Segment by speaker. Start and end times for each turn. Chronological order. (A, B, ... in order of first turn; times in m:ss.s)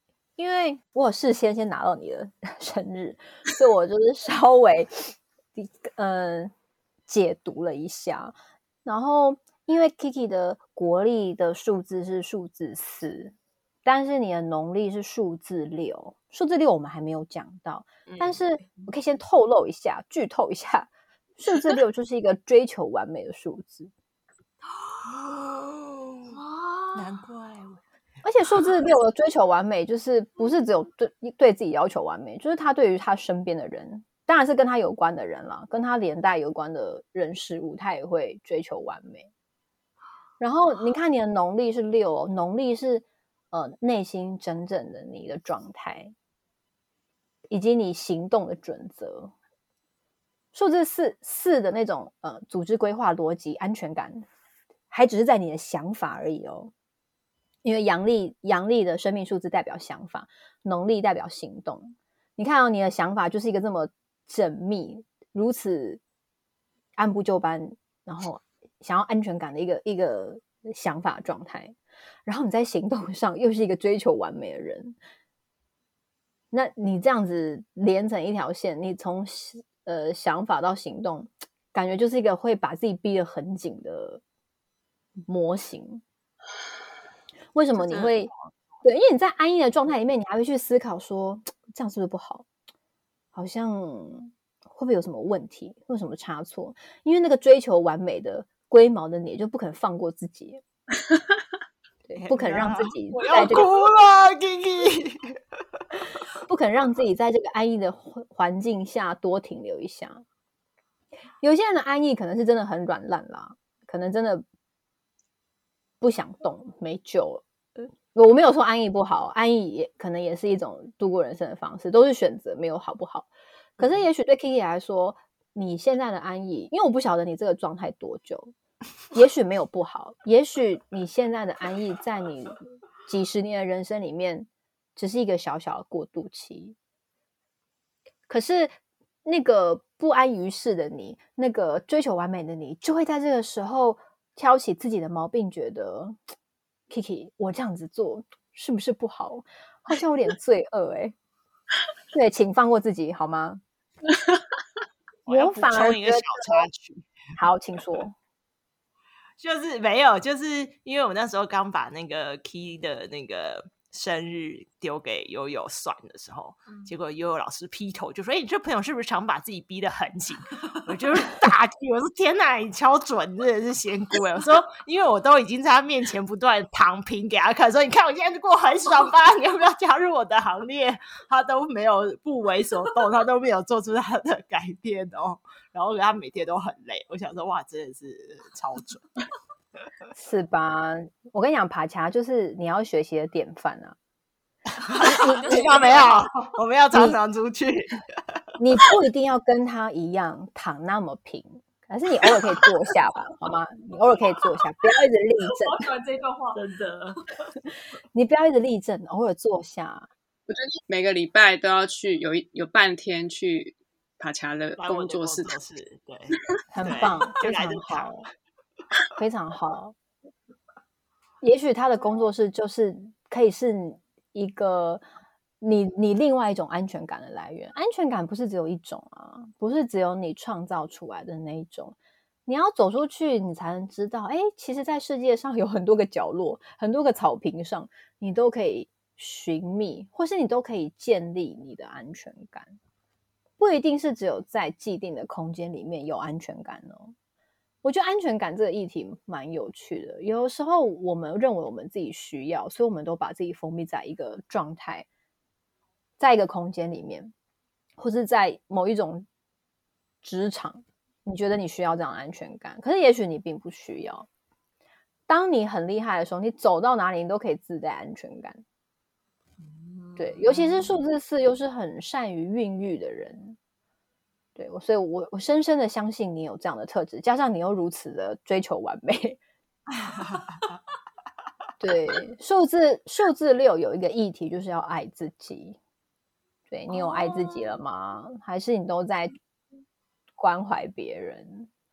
0:00.4-0:06.5 A
0:07.1-0:13.3 A
0:13.8-0:23.9 A
0:18.1-0:18.9 B
0:25.0-0:26.4 C
0:26.3-0:27.2 B
0:26.9-0:27.8 C
0:28.2-0:39.3 A
0:40.4-0:46.1 A
0:47.5-0:49.3 A
0:50.5-0:54.2 A
0:54.9-0:56.7 A
0:57.6-1:06.0 A
1:07.0-1:15.0 A
1:16.5-1:24.2 A
1:25.2-1:26.0 A
1:27.5-1:28.3 A
1:27.8-1:28.1 C
1:28.8-1:32.4 A
1:33.3-1:40.6 A
1:42.0-1:43.7 A
1:42.2-1:45.4 C
1:46.5-1:50.2 A
1:51.4-1:54.4 A
1:56.0-2:08.5 A
2:09.1-2:16.8 A
2:18.3-2:18.7 A
2:19.2-2:26.2 A
2:26.9-2:31.1 A
2:32.1-2:33.6 A
2:35.2-2:37.1 C
2:35.3-2:36.7 A
2:37.4-2:38.2 A
2:39.4-3:09.1 C
3:10.2-3:14.0 A
3:14.8-3:18.4 C
3:14.9-3:16.3 B
3:15.0-3:15.6 A
3:16.9-3:17.2 A
3:18.6-3:25.9 A
3:25.5-3:26.6 B
3:26.5-3:27.5 C
3:28.1-3:30.1 A
3:30.5-3:35.6 D
3:34.8-3:38.1 C
3:36.7-3:38.3 A
3:39.2-3:39.9 A
3:41.4-3:45.0 A
3:45.6-4:02.8 A
4:03.6-4:07.1 A
4:07.8-4:15.1 A
4:16.2-4:17.3 A
4:18.0-4:19.2 A
4:20.2-4:24.3 A
4:25.3-4:28.6 A
4:29.7-4:31.0 B
4:30.2-4:33.6 A
4:34.6-4:39.4 A
4:40.1-4:40.4 C
4:41.8-4:45.8 A
4:46.7-4:49.3 A
4:46.9-4:47.8 B
4:50.4-4:51.7 A